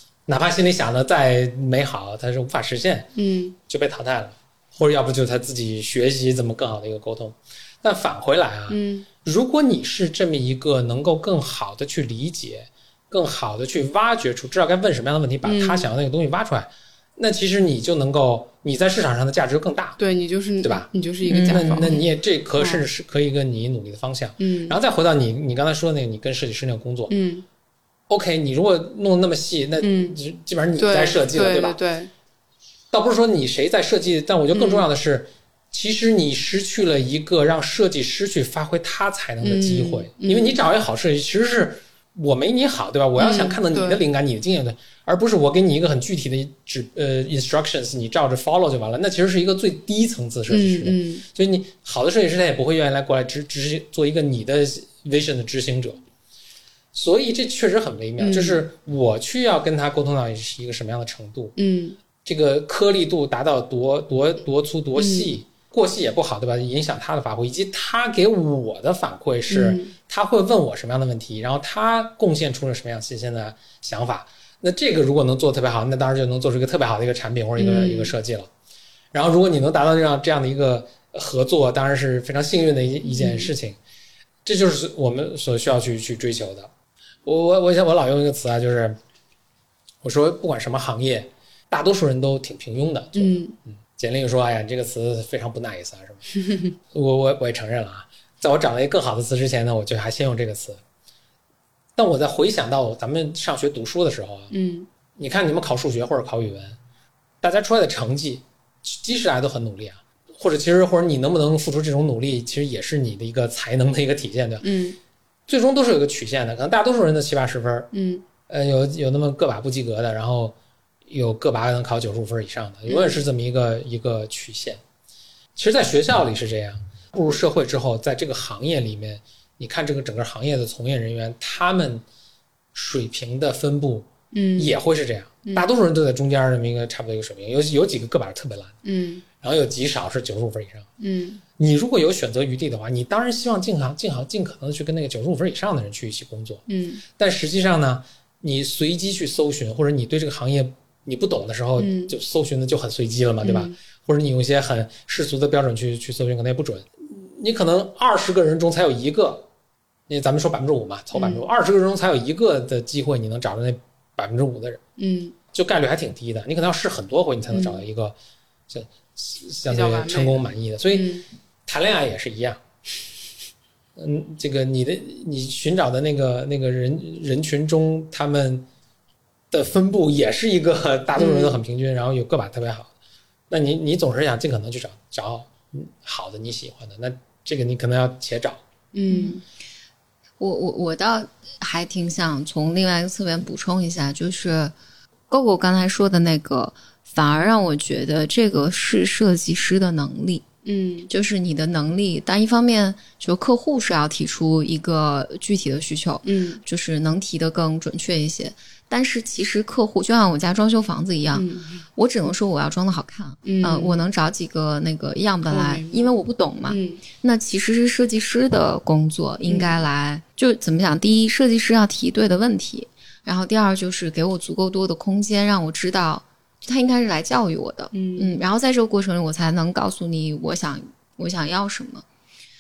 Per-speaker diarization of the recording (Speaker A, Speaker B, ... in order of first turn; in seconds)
Speaker A: 0.2-3.1, 3.7-20.0, 20.6-20.9, 21.5-27.1, 28.1-31.8, 32.9-56.0, 56.9-61.5, 62.2-78.5, 79.1-83.8, 84.4-86.7, 87.2-89.0, 90.0-96.2, 96.9-100.8, 102.0-104.5, 105.2-106.8, 107.4-114.7, 115.5-117.9, 118.5-120.5, 121.1-124.8, 125.5-132.0, 132.7-138.8, 139.4-140.9, 141.6-159.5, 160.1-164.8, 165.5-168.2, 168.7-171.1, 171.7-172.6, 173.9-178.7, 179.5-182.9, 183.5-188.6
Speaker B: 3.1-3.5, 8.7-9.1, 15.4-15.9, 20.0-22.0, 22.6-22.8, 24.4-24.8, 27.1-27.4, 29.8-30.2, 30.8-32.1, 34.5-34.9, 39.4-40.6, 43.1-44.0, 50.5-51.2, 58.2-58.6, 61.6-62.0, 64.9-65.4, 69.5-69.9, 77.6-78.1, 83.0-83.5, 93.1-93.5, 96.3-96.7, 104.5-104.9, 114.6-115.0, 117.9-118.2, 122.9-123.2, 134.3-134.8, 138.8-139.2, 141.0-141.4, 146.7-147.0, 151.8-152.2, 153.4-153.7, 161.1-161.5, 165.0-165.3, 167.5-167.8, 169.7-171.2, 181.2-181.6, 188.9-189.4, 200.6-201.1, 206.2-206.6, 211.3-211.8, 213.4-214.1, 215.5-216.1, 216.7-217.0, 219.5-219.8, 227.9-228.4
Speaker C: 21.2-22.0, 189.1-189.4, 190.4-194.7, 195.3-200.4, 201.1-232.0